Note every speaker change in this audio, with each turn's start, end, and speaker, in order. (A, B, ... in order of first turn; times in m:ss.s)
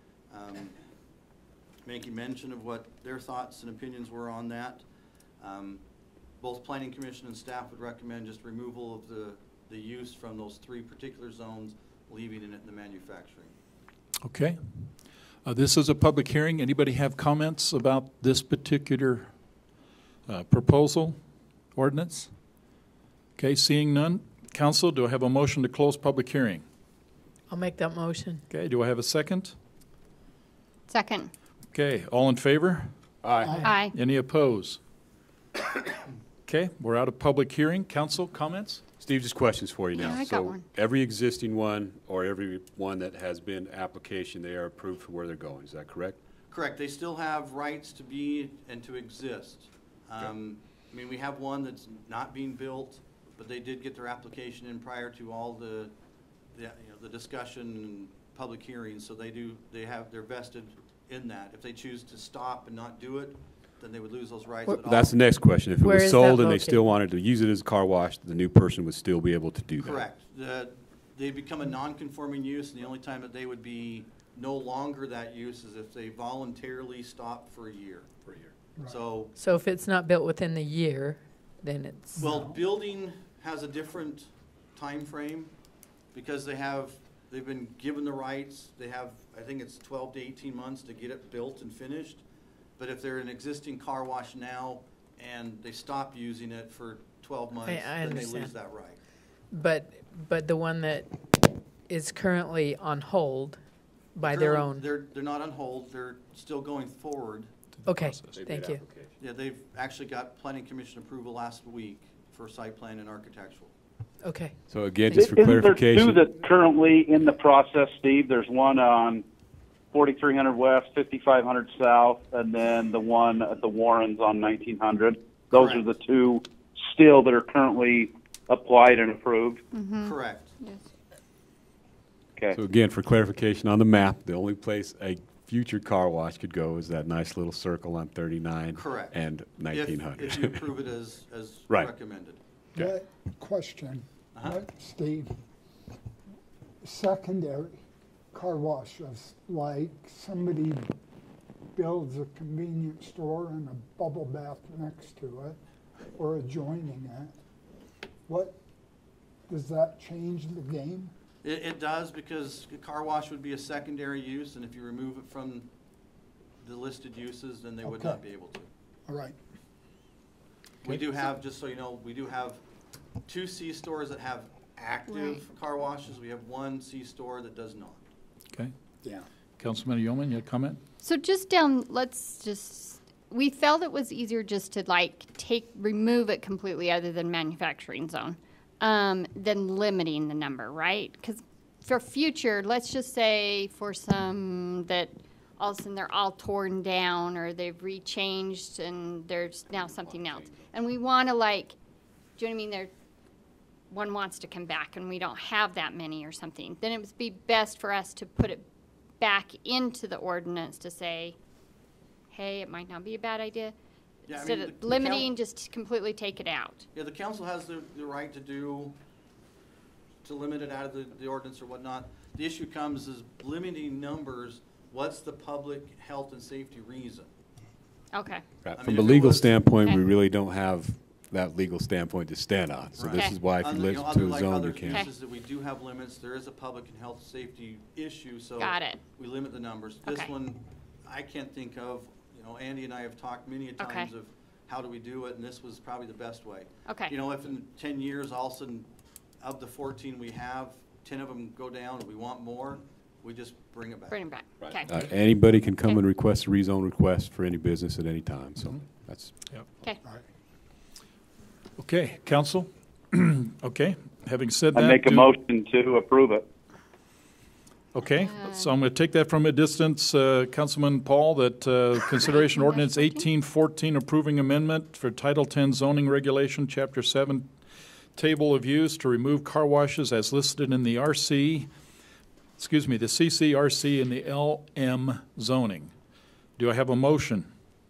0:00.3-0:00.7 A
0:01.8-0:04.8 A
0:05.4-0:05.8 A
0:06.4-0:13.5 A
0:14.2-0:19.3 B
0:20.3-0:21.2 B
0:21.7-0:22.3 B
0:23.4-0:26.6 B
0:27.5-0:28.4 C
0:28.5-0:29.6 B
0:30.9-0:31.3 D
0:31.7-0:32.9 B
0:33.2-0:33.6 E
0:33.4-0:33.8 F
0:33.6-0:34.0 D
0:33.8-0:34.8 B
0:36.5-0:38.8 B
0:39.0-0:46.2 E
0:39.9-0:40.6 D
0:46.5-0:55.9 A
0:56.5-1:05.1 A
1:04.8-1:10.0 E
1:05.9-1:06.7 C
1:09.8-1:18.1 A
1:18.8-1:19.4 A
1:19.4-1:22.2 C
1:22.2-1:22.6 F
1:22.2-1:25.5 A
1:26.1-1:32.2 A
1:32.8-1:39.0 A
1:37.7-1:38.5 C
1:39.5-1:43.6 C
1:44.2-1:44.9 C
1:44.2-1:47.5 A
1:47.8-1:48.4 B
1:47.8-1:48.8 C
1:48.3-1:49.1 E
1:49.2-1:53.7 A
1:54.2-1:55.3 C
1:54.7-1:56.2 E
1:55.1-1:59.2 G
1:59.9-2:09.6 G
2:05.5-2:05.8 A
2:09.7-2:10.9 D
2:10.0-2:10.6 A
2:12.5-2:20.6 E
2:18.8-2:19.2 A
2:19.7-2:22.4 A
2:22.8-2:25.3 F
2:24.3-2:24.6 A
2:26.8-2:27.8 F
2:28.3-2:30.9 F
2:31.8-2:35.6 F
2:36.2-2:37.3 F
2:38.3-2:38.6 F
2:39.5-2:41.1 F
2:41.4-2:45.7 A
2:46.6-2:48.7 A
2:47.8-2:48.2 F
2:49.1-2:49.4 F
2:50.8-2:52.6 A
2:53.3-2:58.0 A
2:55.1-2:55.4 D
2:59.6-3:00.8 B
3:01.0-3:21.8 D
3:19.7-3:20.7 E
3:22.4-3:22.9 D
3:23.9-3:28.6 D
3:29.2-3:31.4 D
3:32.3-3:33.8 D
3:34.3-3:35.3 A
3:34.3-3:36.8 D
3:36.9-3:39.0 A
3:40.2-3:47.3 A
3:48.1-3:48.4 D
3:48.6-3:55.1 E
3:48.7-3:49.6 A
3:53.0-4:08.9 A
3:58.6-3:59.0 D
4:00.0-4:00.3 D
4:03.8-4:04.1 D
4:06.9-4:07.1 D
4:09.4-4:14.2 A
4:14.1-4:14.9 D
4:14.6-4:19.3 E
4:21.8-4:25.3 B
4:24.7-4:26.4 G
4:27.9-4:37.5 B
4:28.2-4:28.7 D
4:32.2-4:33.2 D
4:38.2-4:41.7 B
4:42.6-4:45.9 B
4:46.6-4:47.5 B